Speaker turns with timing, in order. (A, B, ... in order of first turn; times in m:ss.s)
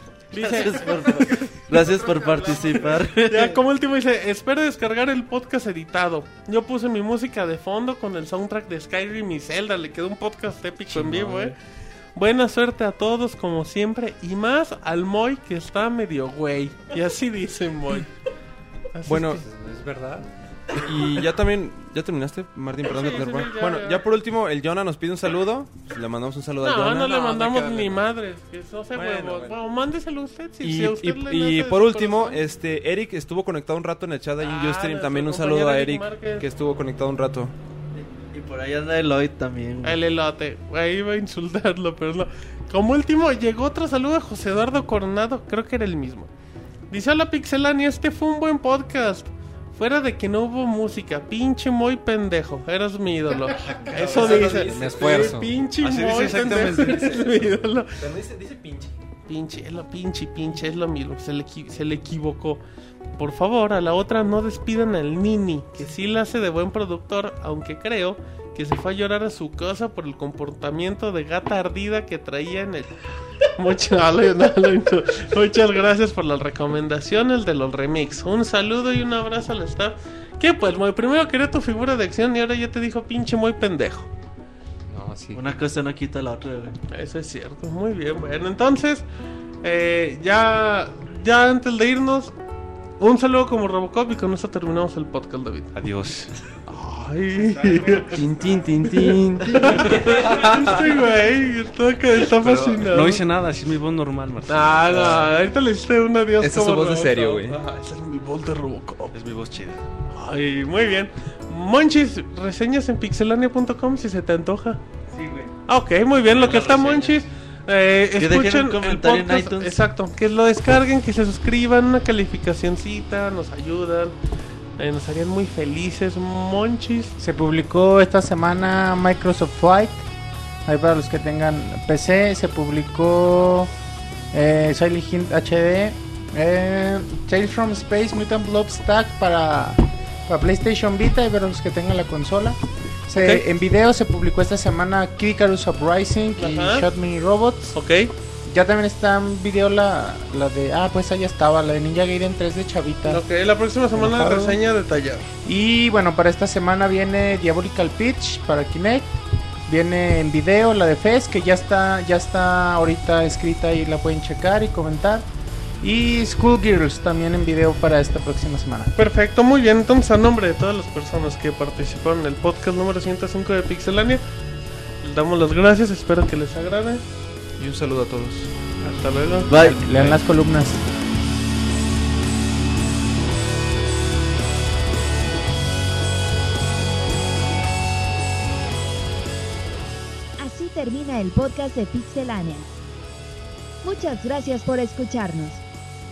0:00.3-0:03.6 A
0:00.3-0:11.6 B
0:10.9-0:11.6 A
0:12.2-0:18.1 B
0:18.9-0:19.4 B
0:19.1-0:19.4 C
0:19.4-0:20.3 D
0:20.7-0:27.2 C
0:22.8-0:24.0 B
0:26.6-0:32.4 B
0:27.0-0:28.0 D
0:29.0-0:29.5 C
0:29.0-0:29.5 D
0:30.6-0:37.5 C
0:34.4-0:36.5 B
0:37.9-0:40.0 A
0:39.8-0:46.3 B
0:46.9-0:58.0 B
0:53.7-0:55.6 C
0:53.9-0:55.6 D
0:55.8-0:57.2 E
0:56.1-0:58.9 C
0:59.3-1:02.6 B
1:03.2-1:24.1 B
1:24.9-1:25.4 D
1:25.3-1:26.8 A
1:26.9-1:29.0 B
1:29.6-1:32.3 B
1:33.0-1:35.7 B
1:35.7-1:36.3 E
1:36.7-1:38.2 B
1:37.9-1:41.0 C
1:38.8-1:43.2 B
1:42.3-1:45.3 E
1:44.5-1:49.1 B
1:46.4-1:47.6 C
1:49.1-1:49.9 E
1:50.1-1:54.8 B
1:55.6-2:04.2 B
1:56.2-1:57.3 E
1:58.2-1:59.8 A
2:04.8-2:07.2 B
2:07.2-2:10.1 F
2:10.6-2:13.7 F
2:14.3-2:27.8 F
2:23.2-2:23.4 B
2:26.4-2:26.9 B
2:27.7-2:28.1 B
2:28.5-2:33.2 F
2:33.1-2:35.3 B
2:33.9-2:34.6 F
2:35.4-2:39.1 F
2:39.7-2:45.3 F
2:45.8-2:48.9 F
2:49.0-2:54.2 B
2:55.0-2:57.0 B
2:57.6-2:58.5 C
2:58.8-3:00.2 B
2:59.4-2:59.9 A
2:59.6-3:00.8 F
3:10.4-3:12.7 G
3:13.8-3:15.6 G